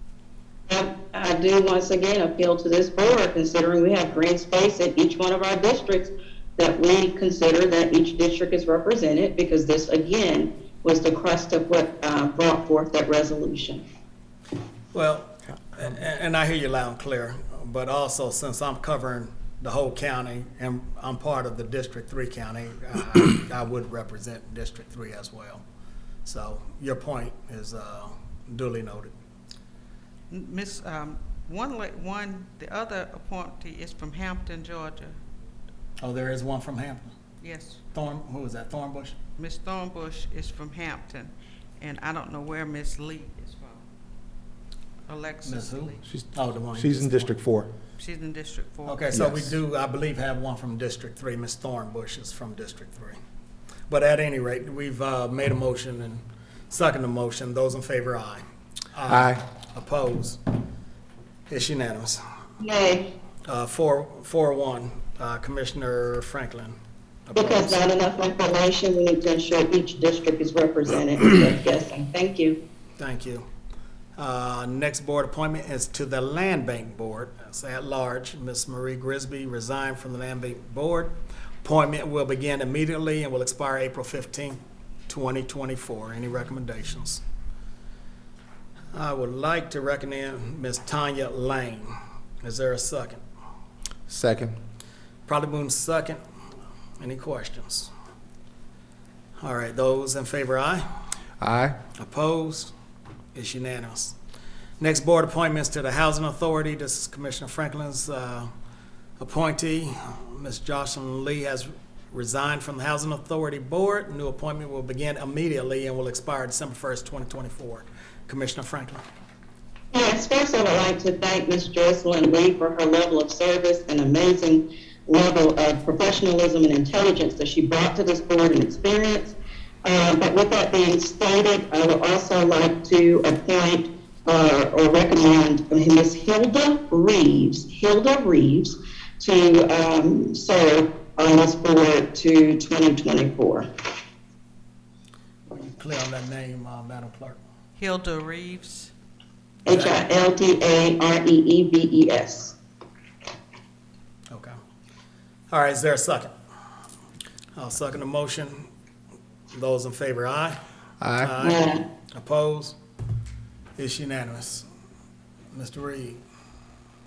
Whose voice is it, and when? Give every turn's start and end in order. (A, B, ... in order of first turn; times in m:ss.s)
0:00.7-0:13.8 A
0:14.9-0:25.6 B
0:26.2-0:29.1 B
0:30.3-0:35.2 C
0:36.0-0:37.1 B
0:37.4-0:37.8 C
0:37.9-0:39.2 B
0:39.4-0:43.8 C
0:45.1-0:46.0 C
0:45.4-0:47.4 B
0:46.1-0:47.7 D
0:48.0-0:49.1 C
0:48.9-0:53.2 B
0:49.1-0:49.6 D
0:53.9-0:58.4 B
0:58.9-1:00.4 B
0:59.1-0:59.4 D
1:01.5-1:02.2 B
1:02.6-1:03.1 A
1:03.5-1:06.8 B
1:07.3-1:07.8 B
1:07.4-1:12.6 A
1:13.0-1:13.5 B
1:14.2-1:21.1 B
1:21.6-1:27.2 B
1:28.9-1:33.2 B
1:34.1-1:34.6 D
1:35.3-1:36.2 B
1:37.0-1:37.9 B
1:39.4-1:40.8 B
1:41.4-1:41.8 D
1:42.0-1:42.7 B
1:43.3-1:44.2 B
1:44.8-1:48.5 B
1:49.2-1:59.0 B
1:59.9-2:23.7 A
2:25.5-2:27.4 B
2:27.8-2:28.9 C
2:29.7-2:32.6 A
2:29.7-2:30.0 B
2:34.3-2:34.6 B
2:35.5-2:36.3 B
2:37.6-2:38.7 B
2:39.5-2:40.6 B
2:41.0-2:41.3 D
2:41.2-2:42.8 B
2:41.4-2:41.8 A
2:43.8-2:44.7 B
2:45.5-2:46.2 B